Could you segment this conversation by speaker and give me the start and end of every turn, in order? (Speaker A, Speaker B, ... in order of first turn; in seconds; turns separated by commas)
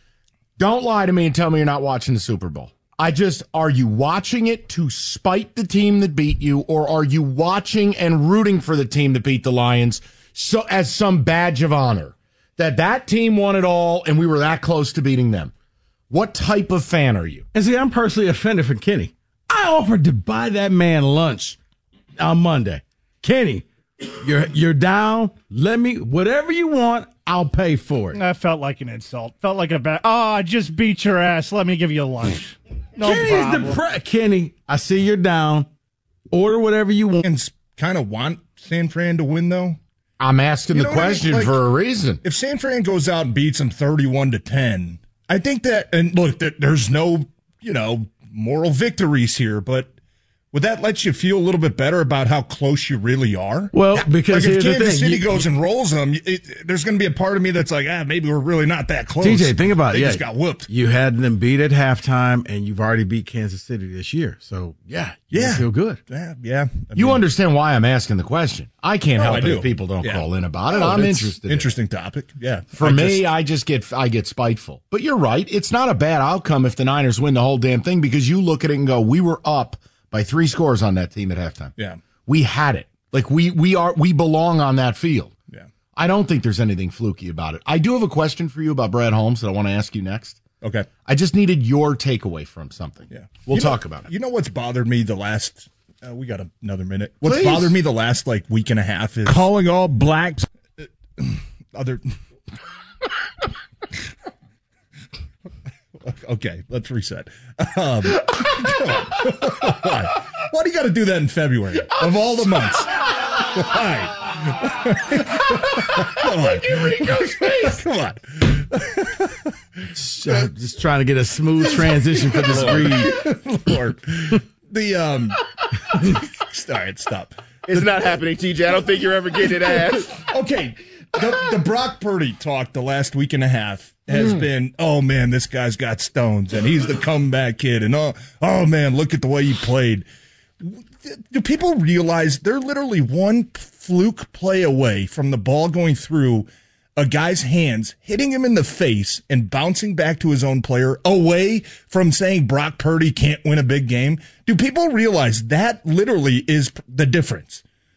Speaker A: 0.6-15.5, Speaker A: 16.1-17.5, Speaker B: 17.5-21.6, Speaker B: 22.2-28.2, Speaker C: 28.1-33.8, Speaker B: 33.0-35.7, Speaker B: 36.3-37.2, Speaker D: 37.2-39.8, Speaker A: 40.2-42.2, Speaker D: 40.7-41.6, Speaker D: 42.2-49.9, Speaker D: 50.5-53.7, Speaker B: 53.7-55.5, Speaker D: 54.3-60.7, Speaker B: 59.2-66.0, Speaker D: 65.3-67.2, Speaker A: 66.9-71.8, Speaker D: 69.2-70.2, Speaker D: 70.8-73.3, Speaker A: 72.8-81.7, Speaker A: 82.2-85.3, Speaker A: 85.9-90.4, Speaker A: 91.0-94.1, Speaker D: 93.1-102.0, Speaker A: 97.2-97.8, Speaker D: 106.0-119.5, Speaker B: 119.9-123.2, Speaker D: 121.7-125.4, Speaker E: 122.6-122.9, Speaker D: 125.9-127.8, Speaker E: 127.6-130.2, Speaker D: 130.2-140.1, Speaker D: 140.6-157.6